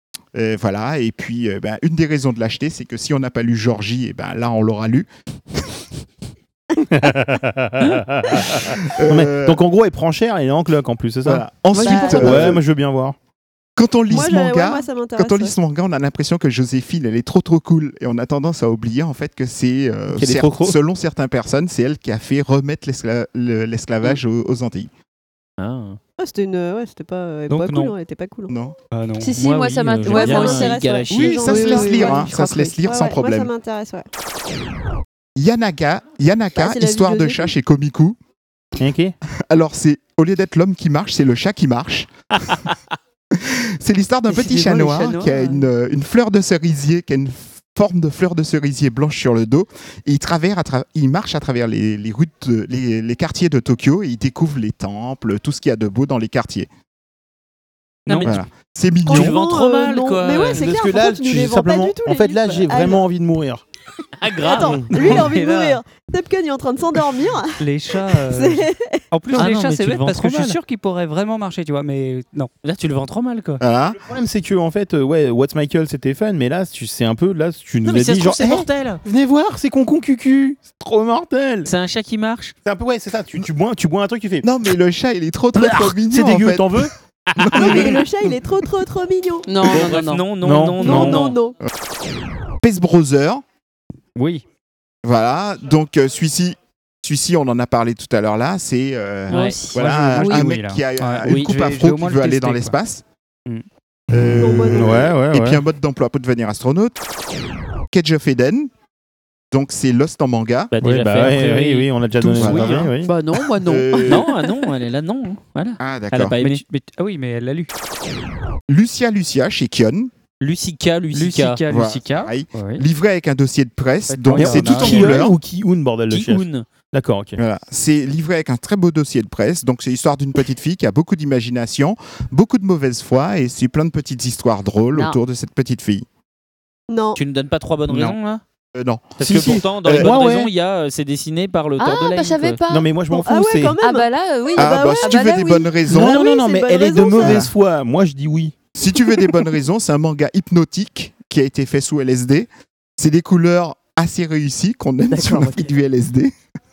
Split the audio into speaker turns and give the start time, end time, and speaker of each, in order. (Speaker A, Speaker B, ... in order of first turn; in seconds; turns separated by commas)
Speaker A: 0.3-5.1, Speaker B: 6.8-11.5, Speaker A: 8.7-9.6, Speaker A: 11.2-12.6, Speaker C: 11.7-12.5, Speaker D: 11.8-12.5, Speaker B: 12.1-13.2, Speaker A: 13.8-24.9, Speaker D: 14.1-15.5, Speaker B: 20.1-20.8, Speaker E: 25.6-26.0, Speaker D: 26.2-28.5, Speaker E: 27.5-27.8, Speaker F: 27.6-27.8, Speaker A: 28.5-28.8, Speaker F: 28.9-29.3, Speaker C: 29.2-32.7, Speaker E: 29.3-31.5, Speaker D: 30.0-34.0, Speaker A: 31.1-33.5, Speaker A: 35.4-38.2, Speaker D: 36.5-37.5, Speaker B: 38.8-39.1, Speaker A: 39.3-42.7, Speaker A: 43.3-56.7, Speaker C: 44.3-45.6, Speaker E: 58.1-58.4, Speaker A: 58.2-59.4, Speaker E: 59.1-60.6, Speaker D: 59.1-63.0, Speaker B: 60.5-63.6, Speaker E: 64.2-65.8, Speaker D: 64.4-69.0, Speaker B: 64.5-65.2, Speaker F: 67.6-72.5, Speaker E: 69.3-70.6, Speaker E: 72.6-73.6, Speaker A: 73.6-74.0, Speaker B: 74.0-81.7, Speaker E: 77.8-79.0, Speaker E: 81.6-82.5, Speaker B: 82.6-84.5, Speaker A: 84.4-88.0, Speaker B: 85.5-86.9, Speaker E: 87.3-87.9, Speaker D: 87.5-89.5, Speaker B: 87.6-87.8, Speaker C: 89.5-90.3, Speaker E: 89.7-91.4, Speaker B: 90.4-91.3, Speaker D: 90.8-91.5, Speaker A: 92.4-93.4, Speaker F: 94.2-94.4, Speaker A: 95.0-103.0, Speaker E: 99.3-99.6, Speaker C: 99.3-100.5, Speaker F: 99.7-102.7, Speaker A: 104.1-107.0, Speaker B: 104.2-105.6, Speaker D: 104.4-105.1, Speaker A: 107.9-108.7, Speaker A: 109.5-110.7, Speaker E: 110.7-111.9, Speaker B: 110.8-113.1, Speaker A: 112.3-112.9, Speaker F: 112.4-112.9, Speaker C: 113.0-114.3, Speaker A: 113.6-114.2, Speaker E: 114.1-116.6, Speaker A: 115.8-116.3, Speaker F: 116.4-117.7, Speaker A: 118.7-120.1, Speaker E: 120.4-121.6, Speaker F: 121.1-122.8, Speaker A: 121.7-125.4, Speaker E: 124.1-125.2, Speaker B: 124.3-127.3, Speaker F: 124.3-125.2, Speaker E: 126.1-126.7, Speaker A: 127.4-136.1, Speaker D: 136.9-137.2, Speaker E: 137.1-138.4, Speaker A: 137.9-138.1, Speaker A: 138.7-140.1, Speaker E: 139.2-142.6, Speaker B: 139.2-140.5, Speaker C: 141.8-142.9, Speaker B: 142.7-143.8, Speaker D: 143.1-147.4, Speaker C: 143.8-145.8, Speaker A: 144.6-146.2, Speaker B: 145.9-148.6, Speaker A: 147.2-147.5, Speaker A: 148.8-156.3, Speaker C: 155.1-155.7